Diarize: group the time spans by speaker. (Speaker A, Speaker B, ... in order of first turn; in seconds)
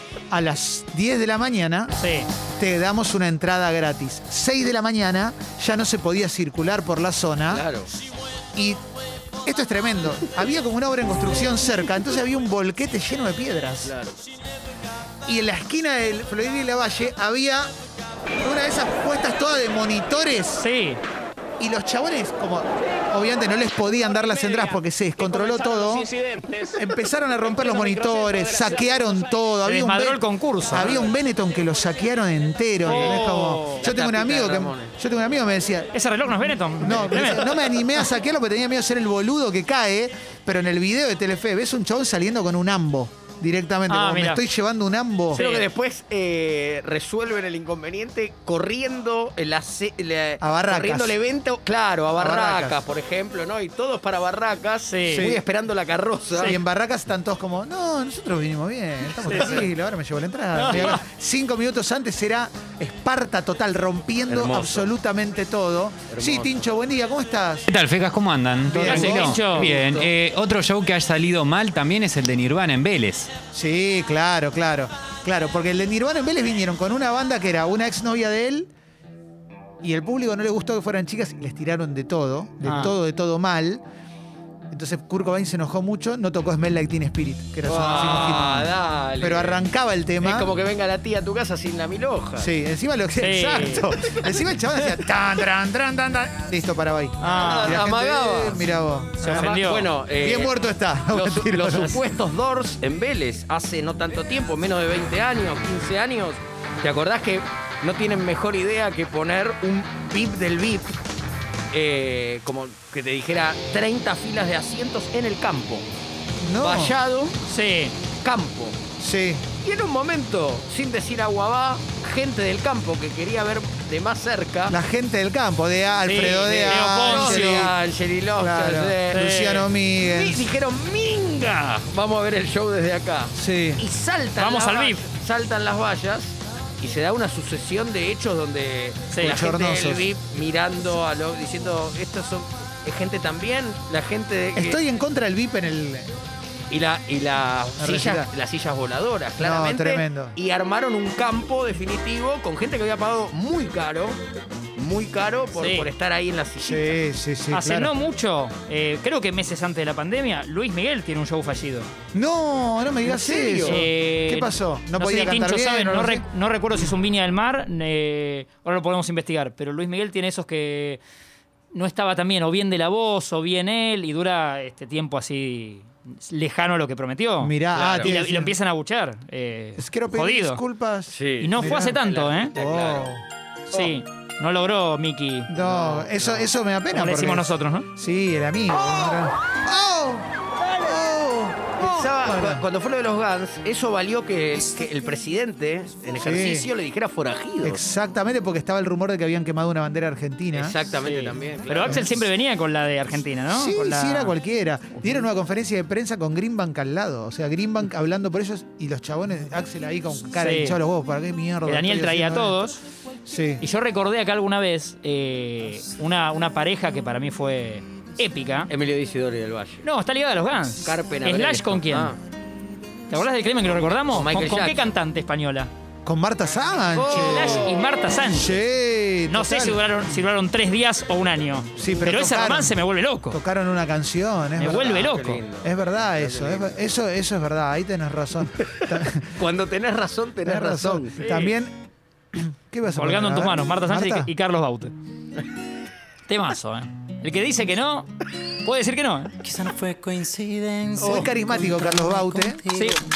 Speaker A: 0.3-1.9, 2.6-7.6, 9.4-13.9, 15.3-17.7, 18.4-20.6, 21.6-35.9, 36.8-45.4, 50.4-51.1, 52.2-52.8, 55.1-55.4, 56.4-67.7, 68.7-69.4, 73.5-78.7, 79.8-83.8, 84.7-90.5, 92.4-99.6, 100.2-102.0, 116.4-117.0, 119.0-119.5, 124.7-127.7, 128.4-130.5, 133.4-133.8, 139.2-140.1, 144.6-146.1, 147.8-148.3, 149.4-150.4, 156.6-157.9, 162.1-166.2, 177.4-178.6, 179.8-182.0, 182.5-183.2, 185.5-192.7, 196.2-196.7, 197.6-200.8, 203.5-212.6, 213.3-213.6, 226.1-227.7, 228.3-229.8, 231.8-232.8, 233.3-239.4, 240.4-241.8, 242.3-244.3, 250.9-252.7
Speaker B: 1.9-2.3, 20.6-21.0, 29.6-31.0, 32.9-33.9, 35.9-37.8, 43.9-44.4, 45.3-45.7, 54.9-55.3, 59.3-59.6, 60.5-61.0, 68.8-69.7, 82.6-83.0, 87.8-88.3, 93.2-93.9, 97.2-97.8, 99.2-99.9, 117.5-118.0, 126.1-127.7, 129.1-129.7, 134.4-135.1, 139.1-139.3, 155.5-155.9, 157.5-161.9, 163.7-171.0, 171.7-180.6, 181.4-182.5, 183.7-185.5, 186.9-187.9, 201.1-204.3, 210.4-210.8, 211.7-212.8, 213.6-218.7, 219.8-222.1, 223.1-225.7, 227.1-228.6, 229.3-233.4, 234.6-235.4, 241.2-241.5, 242.9-244.9, 246.3-248.1, 248.6-249.3, 251.0-251.3, 252.7-253.0
Speaker C: 7.5-7.9, 13.8-14.2, 25.9-26.2, 32.9-34.9, 45.3-56.6, 64.3-64.9, 66.1-66.7, 68.8-70.1, 87.7-89.6, 90.2-92.5, 97.3-98.6, 99.3-100.6, 101.1-110.9, 111.7-115.8, 116.6-117.4, 118.2-118.8, 119.6-124.8, 126.2-129.3, 130.0-144.8, 146.7-154.2, 154.8-157.0, 163.1-163.8, 177.8-178.1, 181.1-183.1, 185.6-186.4, 191.8-197.8, 200.5-202.1, 218.7-219.8, 220.8-222.2, 224.1-224.8, 226.9-227.8, 234.8-236.8, 238.7-241.2
Speaker D: 67.7-73.3